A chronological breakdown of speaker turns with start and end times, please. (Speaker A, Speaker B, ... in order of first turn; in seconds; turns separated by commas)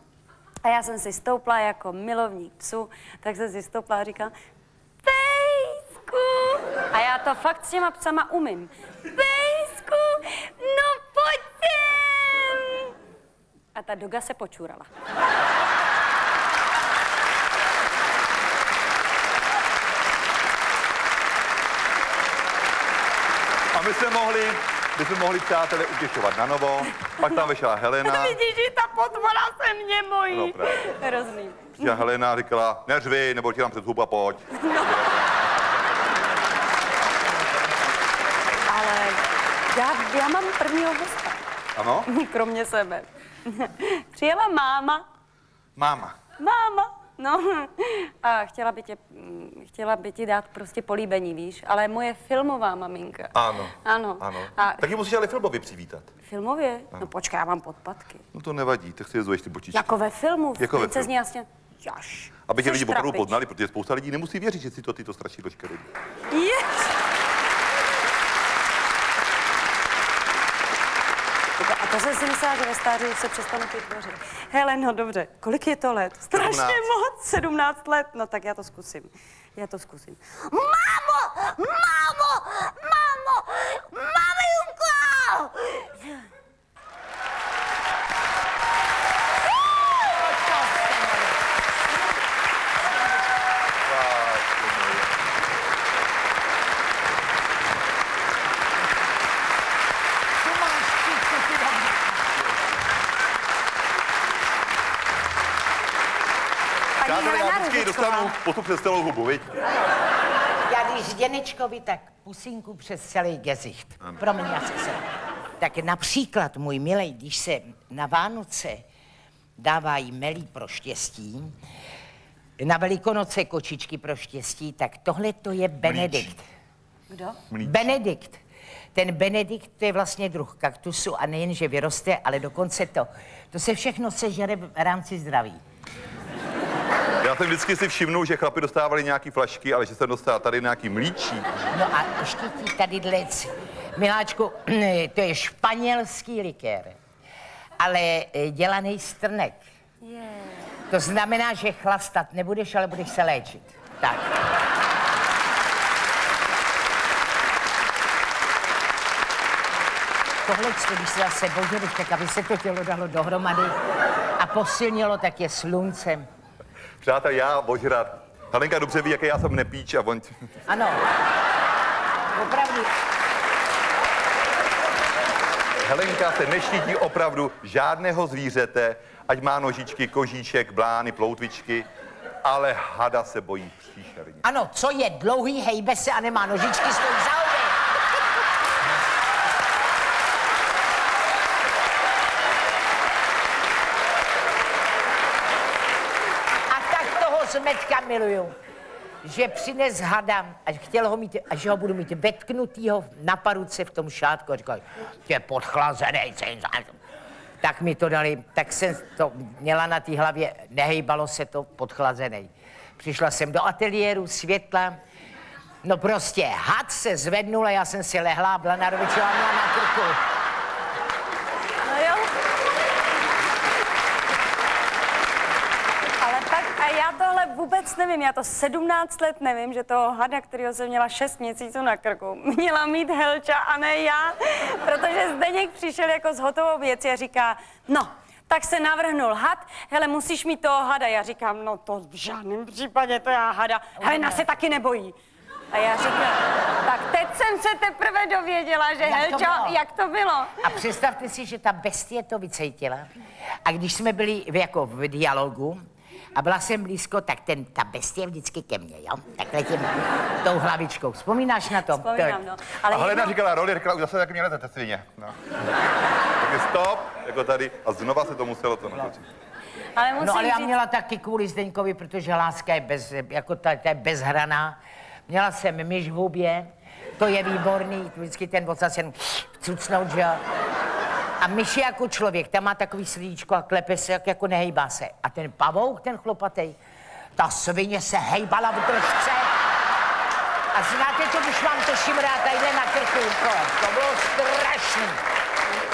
Speaker A: 0.6-4.3, Speaker A: 5.0-12.9, Speaker A: 13.7-14.9, Speaker B: 23.7-28.4, Speaker A: 28.0-32.0, Speaker B: 30.3-30.9, Speaker B: 31.8-35.1, Speaker A: 34.6-35.0, Speaker A: 38.7-39.2, Speaker A: 39.7-41.4, Speaker B: 41.8-42.1, Speaker A: 42.1-45.0, Speaker B: 45.8-46.1, Speaker A: 46.4-53.3, Speaker B: 53.3-56.1, Speaker A: 53.8-54.8, Speaker A: 56.2-58.2, Speaker B: 58.3-59.9, Speaker A: 59.7-63.3, Speaker B: 60.6-61.1, Speaker B: 62.5-65.9, Speaker A: 66.3-67.0, Speaker A: 71.6-85.3, Speaker B: 76.3-76.8, Speaker C: 90.2-91.3, Speaker B: 93.8-95.2, Speaker C: 100.4-102.1, Speaker A: 107.0-108.3, Speaker B: 107.0-109.5, Speaker C: 110.7-115.0, Speaker C: 115.6-118.8, Speaker C: 119.6-121.5, Speaker C: 122.6-126.4, Speaker B: 125.8-126.3, Speaker A: 127.1-127.4, Speaker B: 127.5-127.9, Speaker C: 127.6-128.4, Speaker C: 128.9-135.6, Speaker B: 137.2-141.4, Speaker C: 141.7-147.0, Speaker C: 147.8-149.6, Speaker A: 150.0-150.7, Speaker C: 150.9-154.3, Speaker C: 160.4-163.7, Speaker C: 164.4-166.3, Speaker B: 167.0-170.3, Speaker C: 170.7-171.0, Speaker C: 172.3-172.9, Speaker B: 175.8-181.8, Speaker B: 182.4-184.4, Speaker C: 184.4-187.8, Speaker C: 196.7-198.5, Speaker C: 199.2-206.9, Speaker C: 207.6-215.0, Speaker C: 215.8-220.2, Speaker A: 221.8-222.3, Speaker A: 226.2-245.2, Speaker C: 244.0-244.5, Speaker A: 245.7-250.6, Speaker C: 249.0-249.8, Speaker C: 250.6-253.1, Speaker C: 253.6-262.4, Speaker A: 261.9-263.4, Speaker B: 262.9-265.4, Speaker B: 266.4-269.2, Speaker A: 269.9-270.7, Speaker C: 270.2-280.4, Speaker C: 281.4-286.8, Speaker C: 287.4-289.5, Speaker C: 290.7-295.2